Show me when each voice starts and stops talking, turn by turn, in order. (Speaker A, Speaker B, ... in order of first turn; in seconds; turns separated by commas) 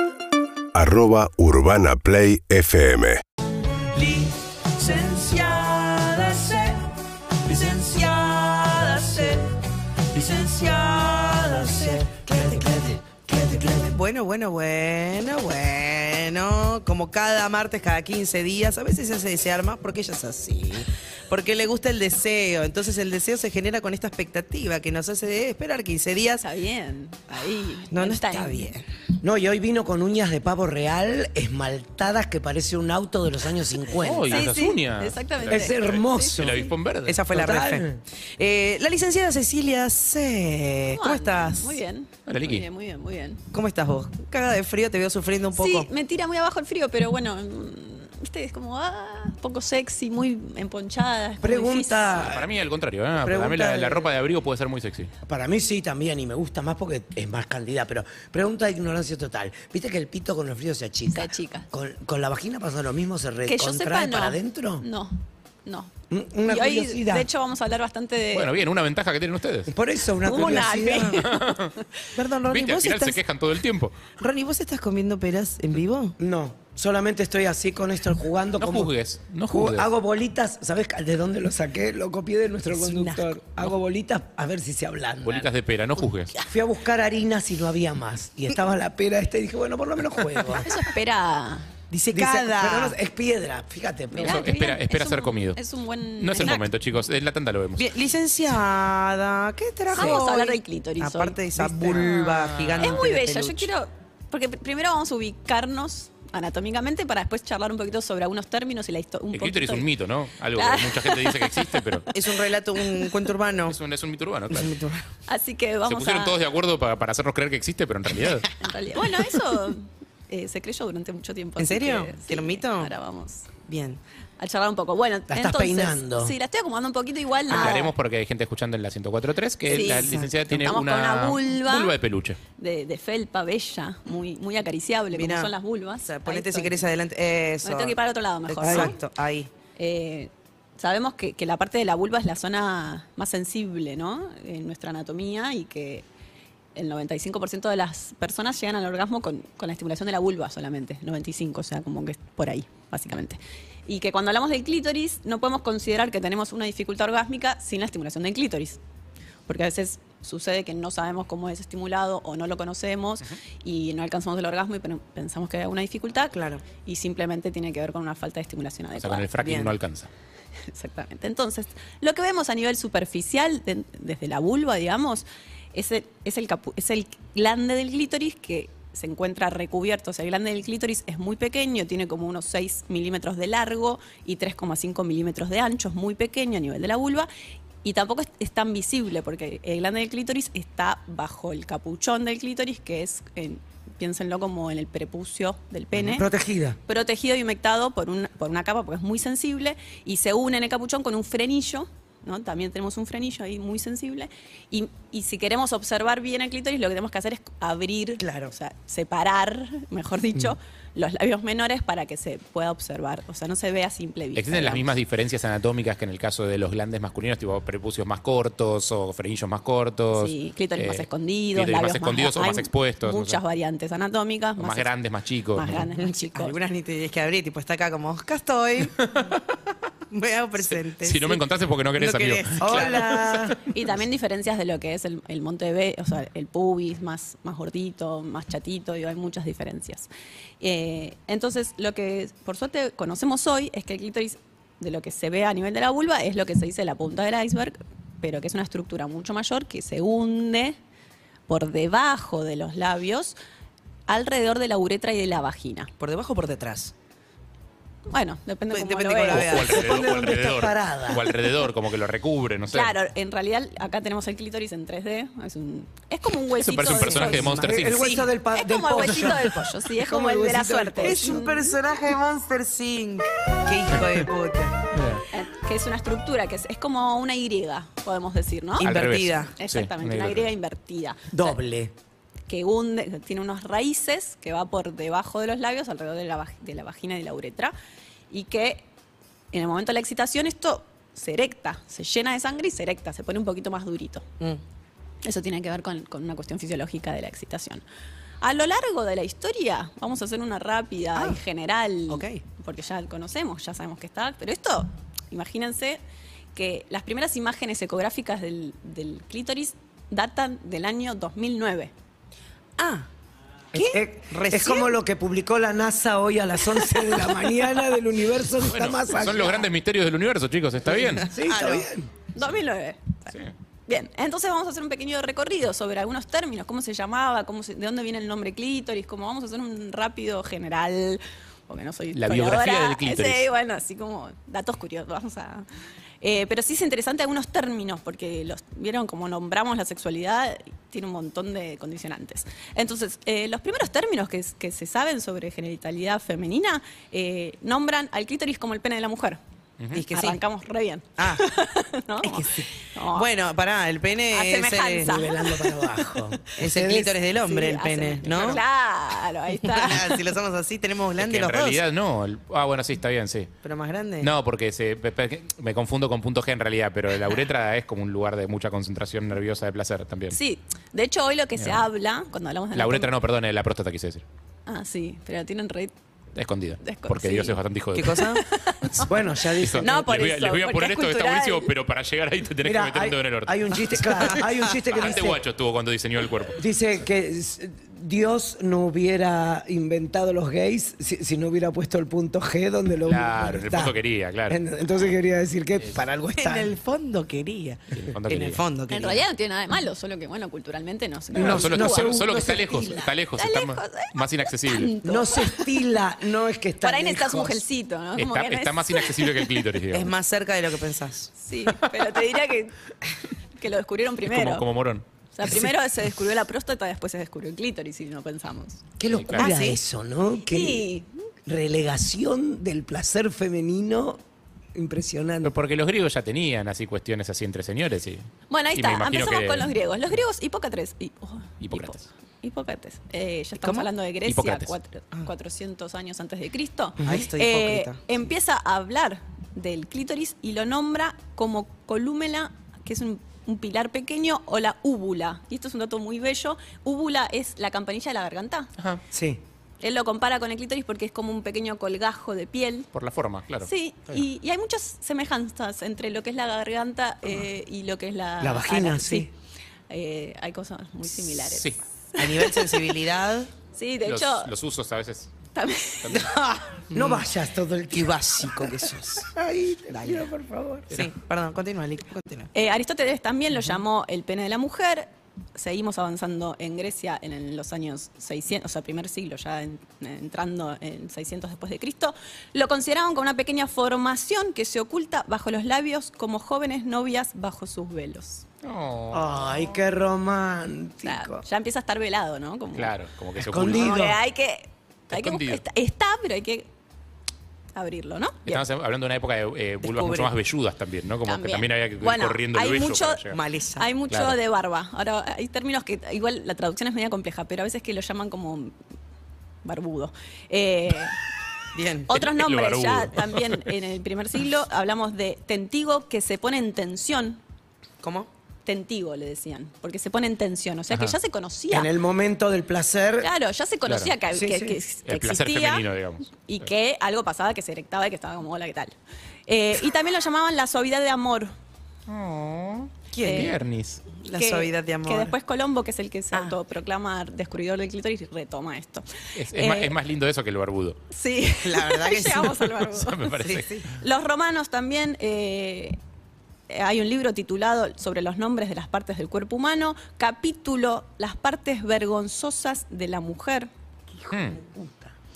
Speaker A: 0.7-3.2, Speaker B: 3.9-6.8, Speaker B: 7.4-9.6, Speaker B: 10.1-26.4, Speaker C: 26.4-28.7, Speaker B: 27.9-28.9, Speaker D: 29.2-34.6, Speaker E: 34.0-37.2, Speaker C: 34.3-36.6, Speaker D: 35.5-36.6, Speaker B: 37.1-41.8, Speaker D: 37.3-38.0, Speaker C: 40.9-43.4, Speaker E: 42.3-42.7, Speaker B: 43.5-45.9, Speaker C: 45.5-52.3, Speaker D: 51.4-52.5, Speaker E: 52.1-55.1, Speaker D: 53.2-53.8, Speaker B: 53.3-54.0, Speaker D: 55.3-64.8, Speaker C: 61.1-61.7, Speaker C: 63.5-65.9, Speaker D: 66.1-67.3, Speaker C: 66.5-68.5, Speaker E: 68.3-69.7, Speaker D: 69.7-71.2, Speaker C: 70.2-71.8, Speaker E: 71.2-71.8, Speaker B: 72.2-73.2, Speaker E: 72.5-74.0, Speaker B: 74.2-76.2, Speaker D: 76.2-78.9, Speaker E: 78.6-79.9, Speaker D: 79.5-85.5, Speaker B: 82.7-83.4, Speaker E: 85.2-86.3, Speaker D: 86.5-90.8, Speaker C: 90.6-91.7, Speaker B: 91.9-93.0, Speaker D: 92.1-94.6, Speaker C: 94.2-96.7, Speaker E: 94.2-95.6, Speaker E: 96.2-97.9, Speaker B: 97.8-103.7, Speaker C: 99.9-101.4, Speaker E: 101.6-103.0, Speaker C: 102.8-109.9, Speaker E: 109.3-112.1, Speaker C: 110.5-111.9, Speaker B: 112.1-113.8, Speaker E: 113.7-114.7, Speaker B: 114.5-115.1, Speaker C: 115.3-116.4, Speaker E: 115.9-118.5, Speaker C: 118.6-123.5, Speaker B: 121.6-122.9, Speaker B: 123.7-124.0, Speaker C: 124.4-127.9, Speaker D: 125.3-126.3, Speaker B: 127.5-127.9, Speaker E: 127.5-132.4, Speaker B: 129.7-130.3, Speaker C: 129.7-131.9, Speaker C: 132.6-136.9, Speaker B: 135.1-135.5, Speaker B: 136.1-138.0, Speaker C: 137.6-139.0, Speaker B: 138.5-139.5, Speaker D: 138.6-138.9, Speaker C: 139.8-146.1, Speaker C: 146.8-158.8, Speaker C: 159.5-169.3, Speaker B: 166.3-166.6, Speaker E: 169.0-170.1, Speaker B: 169.4-169.7, Speaker C: 170.7-187.3, Speaker C: 187.8-196.3, Speaker D: 196.0-196.8, Speaker C: 196.9-214.9, Speaker D: 208.2-208.5, Speaker E: 214.4-223.4, Speaker C: 220.2-224.9, Speaker E: 224.6-225.9, Speaker C: 225.5-226.6, Speaker B: 225.9-229.3, Speaker E: 229.1-229.3, Speaker B: 230.1-231.4, Speaker E: 230.6-233.5, Speaker B: 232.0-233.0, Speaker D: 232.6-233.7, Speaker C: 233.7-240.1, Speaker C: 240.6-250.8, Speaker C: 251.5-253.4, Speaker C: 254.1-255.9, Speaker B: 256.0-256.9, Speaker C: 258.1-259.6, Speaker B: 258.7-260.3, Speaker E: 259.3-262.9, Speaker D: 259.6-261.3, Speaker C: 262.7-267.5, Speaker E: 266.6-268.1, Speaker B: 266.9-268.3, Speaker D: 267.6-271.5, Speaker C: 268.5-271.8, Speaker B: 271.0-274.9, Speaker E: 274.9-275.2, Speaker C: 275.3-278.9, Speaker E: 278.8-280.5, Speaker B: 278.8-279.5, Speaker C: 279.6-281.6, Speaker D: 281.3-281.9, Speaker C: 282.5-287.7, Speaker C: 288.3-288.9, Speaker C: 289.5-294.2, Speaker C: 295.2-297.8, Speaker C: 298.4-306.0, Speaker B: 302.1-302.4, Speaker C: 306.6-311.9, Speaker B: 312.8-313.1, Speaker B: 313.7-314.9, Speaker D: 313.7-319.7, Speaker E: 318.6-321.3, Speaker B: 320.9-321.9, Speaker D: 321.3-322.1, Speaker C: 322.4-323.3, Speaker C: 323.9-335.6, Speaker E: 332.1-333.4, Speaker C: 336.2-349.4, Speaker E: 349.8-350.1, Speaker B: 349.9-350.4, Speaker C: 350.1-353.3, Speaker B: 351.2-351.4, Speaker B: 352.2-355.2, Speaker C: 354.3-355.8, Speaker D: 355.0-357.1, Speaker B: 356.6-358.6, Speaker C: 357.3-360.2, Speaker E: 358.3-358.6, Speaker B: 359.6-361.8, Speaker E: 361.2-363.5, Speaker B: 363.6-364.3, Speaker E: 364.2-370.4, Speaker C: 370.3-373.1, Speaker E: 371.6-371.8, Speaker E: 372.7-374.2, Speaker C: 374.7-375.9, Speaker E: 376.4-379.1, Speaker C: 376.8-377.6, Speaker B: 377.9-378.4, Speaker C: 378.5-379.1, Speaker D: 379.0-380.0, Speaker E: 379.6-386.6, Speaker C: 379.7-381.7, Speaker D: 382.6-385.4, Speaker D: 386.6-394.0, Speaker E: 393.1-394.6, Speaker D: 394.5-396.7, Speaker B: 396.3-399.2, Speaker E: 397.9-398.6, Speaker C: 398.9-402.2, Speaker D: 401.3-403.1, Speaker E: 401.4-404.9, Speaker C: 403.4-405.6, Speaker D: 405.0-407.6, Speaker C: 406.8-409.5, Speaker E: 408.2-410.1, Speaker B: 409.9-411.3, Speaker C: 411.4-412.8, Speaker C: 413.6-414.7, Speaker E: 414.3-415.1, Speaker C: 415.3-418.8, Speaker D: 419.0-420.9, Speaker E: 419.1-419.5, Speaker B: 419.4-419.8, Speaker C: 420.5-421.1, Speaker D: 421.5-424.2, Speaker D: 424.8-425.6, Speaker E: 425.4-429.7, Speaker C: 428.5-448.7, Speaker E: 431.6-432.0, Speaker B: 433.6-433.9, Speaker E: 434.3-434.7, Speaker B: 437.0-438.0, Speaker D: 449.1-449.4, Speaker C: 449.8-452.9, Speaker E: 452.9-453.7, Speaker C: 453.6-459.3, Speaker D: 458.4-459.3, Speaker C: 459.9-462.7, Speaker E: 461.2-461.8, Speaker B: 462.2-463.5, Speaker C: 463.8-464.5, Speaker E: 464.1-465.3, Speaker C: 465.6-466.2, Speaker E: 466.0-466.3, Speaker B: 466.1-467.2, Speaker D: 466.9-470.9, Speaker B: 467.9-469.3, Speaker B: 469.9-470.3, Speaker B: 470.8-472.5, Speaker C: 472.5-488.4, Speaker E: 488.6-489.7, Speaker D: 489.1-491.4, Speaker C: 491.0-492.9, Speaker E: 492.8-494.0, Speaker D: 493.4-494.2, Speaker C: 493.6-496.7, Speaker E: 495.1-495.6, Speaker C: 497.8-498.6, Speaker E: 498.5-503.4, Speaker B: 499.8-500.3, Speaker C: 501.3-508.7, Speaker B: 503.3-503.9, Speaker E: 504.1-504.4, Speaker C: 509.6-511.2, Speaker B: 511.8-512.1, Speaker C: 512.1-517.4, Speaker E: 512.1-513.7, Speaker B: 518.0-518.3, Speaker C: 518.7-521.9, Speaker D: 521.7-523.3, Speaker C: 523.2-525.9, Speaker E: 523.9-524.1, Speaker D: 524.3-524.8, Speaker E: 525.1-526.7, Speaker C: 526.4-528.9, Speaker C: 529.5-531.5, Speaker E: 532.1-534.0, Speaker B: 533.1-533.6, Speaker C: 533.3-533.6, Speaker B: 534.1-535.4, Speaker C: 534.3-539.9, Speaker E: 539.4-541.0, Speaker C: 541.1-546.0, Speaker B: 541.6-542.7, Speaker E: 542.8-543.9, Speaker B: 543.4-543.9, Speaker C: 546.7-553.7, Speaker D: 554.1-555.1, Speaker E: 554.3-554.6